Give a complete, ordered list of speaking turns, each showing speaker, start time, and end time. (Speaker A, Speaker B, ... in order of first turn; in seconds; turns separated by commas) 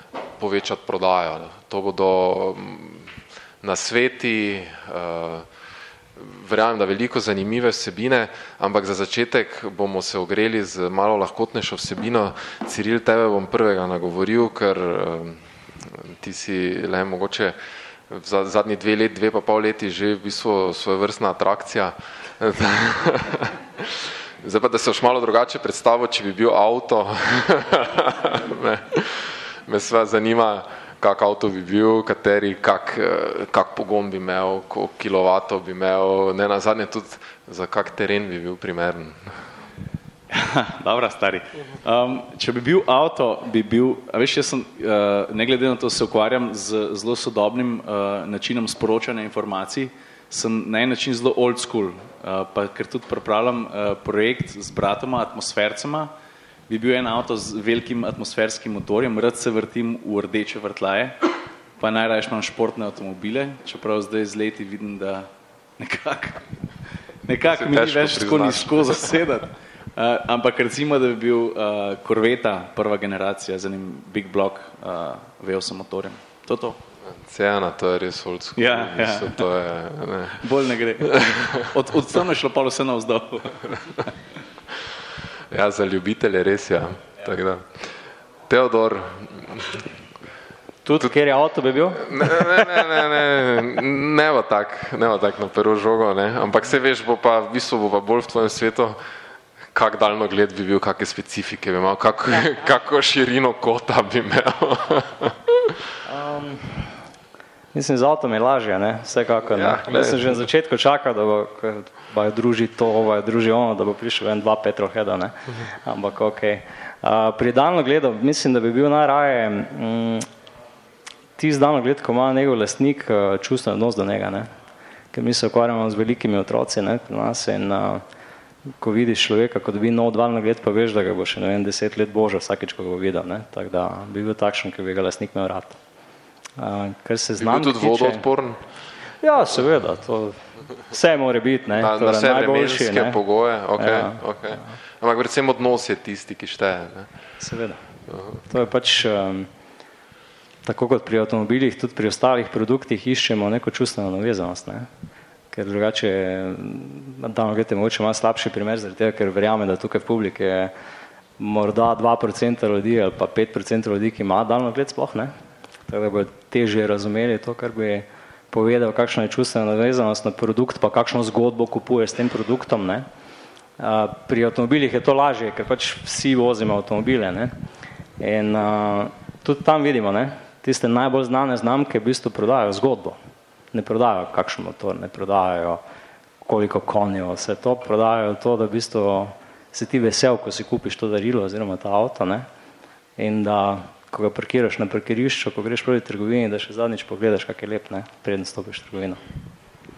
Speaker A: 0.4-3.1, Speaker A: 3.6-5.5, Speaker A: 6.2-17.5, Speaker A: 18.1-39.4, Speaker B: 40.3-56.1, Speaker B: 56.7-61.2, Speaker B: 61.8-65.3, Speaker B: 65.8-66.5, Speaker B: 67.2-76.8, Speaker A: 67.4-69.1, Speaker A: 77.0-80.4, Speaker B: 78.6-79.4, Speaker B: 80.4-84.1, Speaker A: 81.3-81.7, Speaker A: 85.5-87.8, Speaker A: 88.5-89.8, Speaker C: 90.8-92.5, Speaker A: 92.0-99.0, Speaker A: 99.7-105.8, Speaker C: 106.1-106.8, Speaker C: 107.7-120.3, Speaker A: 109.5-110.4, Speaker C: 121.4-124.5, Speaker C: 125.1-128.0, Speaker C: 128.8-135.8, Speaker C: 136.6-138.2, Speaker A: 137.4-138.6, Speaker C: 139.2-143.2, Speaker A: 141.8-147.1, Speaker C: 143.8-144.2, Speaker C: 147.4-147.8, Speaker A: 148.1-148.4, Speaker C: 148.5-149.5, Speaker C: 150.6-154.9, Speaker C: 155.5-160.7, Speaker C: 161.4-165.3, Speaker C: 165.9-173.1, Speaker C: 173.8-177.5, Speaker C: 178.2-183.2, Speaker C: 183.7-185.8, Speaker C: 186.4-192.4, Speaker C: 193.2-199.2